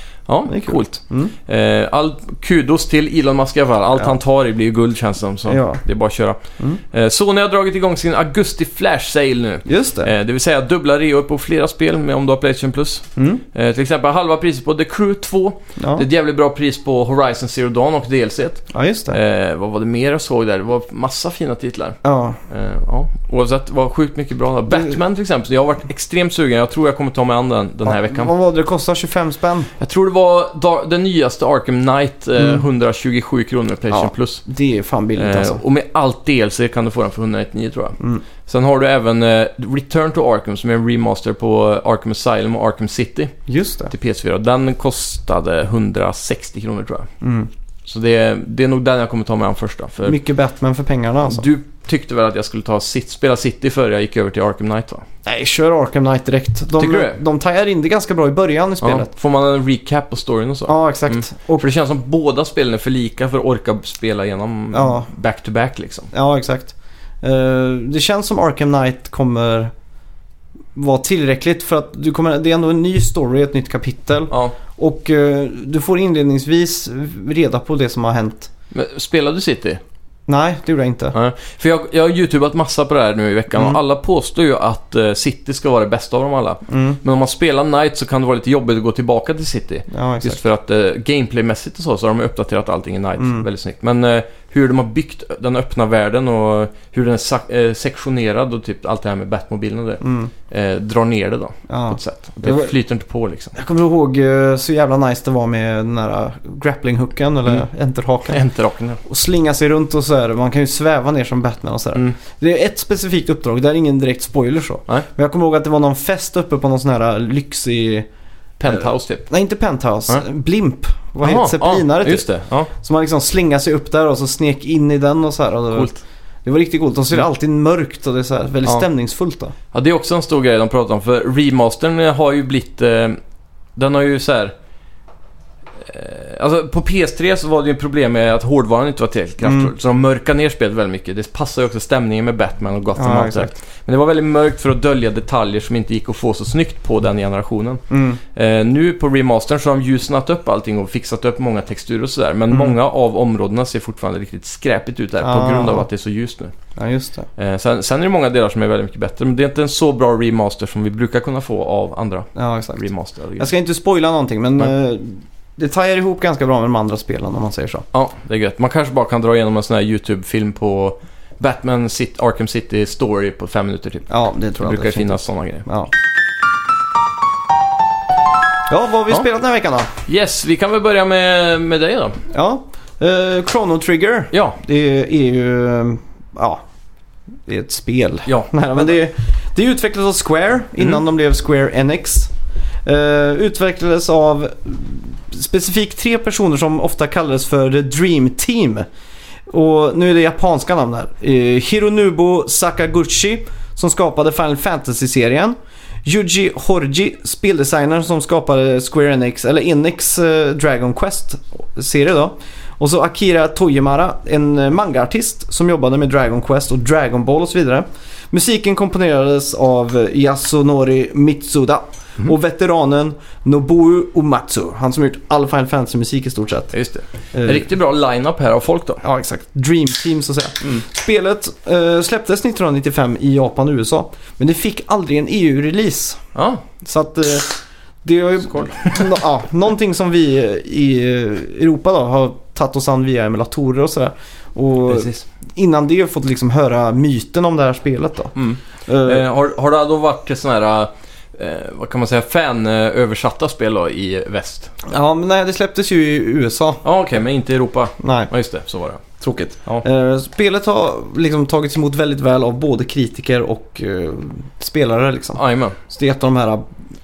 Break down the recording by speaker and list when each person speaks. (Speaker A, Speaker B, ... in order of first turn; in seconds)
Speaker A: 0.3-6.4, 6.9-28.3, 29.8-34.4, 35.1-43.3, 43.9-47.1, 47.9-50.2, 51.2-55.0, 56.8-57.2, 58.8-66.1, 78.7-79.8, 81.1-103.5, 108.3-109.0, 118.6-119.3, 121.2-122.7, 125.7-126.0, 129.7-133.2, 133.8-134.5, 135.8-147.8, 148.3-156.5, 157.4-163.5, 167.9-174.1, 174.6-175.7, 180.1-182.2, 184.3-184.6, 226.7-229.0, 236.3-236.6, 238.4-239.2, 244.9-245.2, 248.3-254.7, 256.8-259.0, 265.3-265.8
Speaker B: 0.5-1.3, 5.5-5.8, 9.7-10.1, 13.2-13.4, 15.8-16.1, 18.7-19.2, 22.0-22.4, 24.7-24.9, 27.8-29.7, 32.4-32.6, 33.9-35.6, 43.5-43.9, 47.2-47.5, 50.0-51.5, 55.2-59.1, 60.7-61.7, 64.7-65.1, 66.1-69.7, 70.7-78.5, 80.3-81.1, 83.5-83.8, 86.7-87.0, 89.9-90.4, 93.2-93.5, 100.0-100.3, 101.7-102.7, 103.5-108.4, 109.0-118.1, 118.7-125.9, 126.4-129.5, 139.4-139.7, 142.9-143.5, 147.9-148.2, 152.5-152.8, 155.2-155.8, 156.8-157.3, 162.3-162.8, 163.4-167.8, 174.1-175.9, 178.7-179.9, 182.3-186.6, 187.4-192.3, 192.8-198.9, 199.5-226.7, 227.3-227.6, 229.0-236.2, 236.8-248.3, 248.9-249.2, 254.8-256.8, 258.0-258.3, 259.2-266.6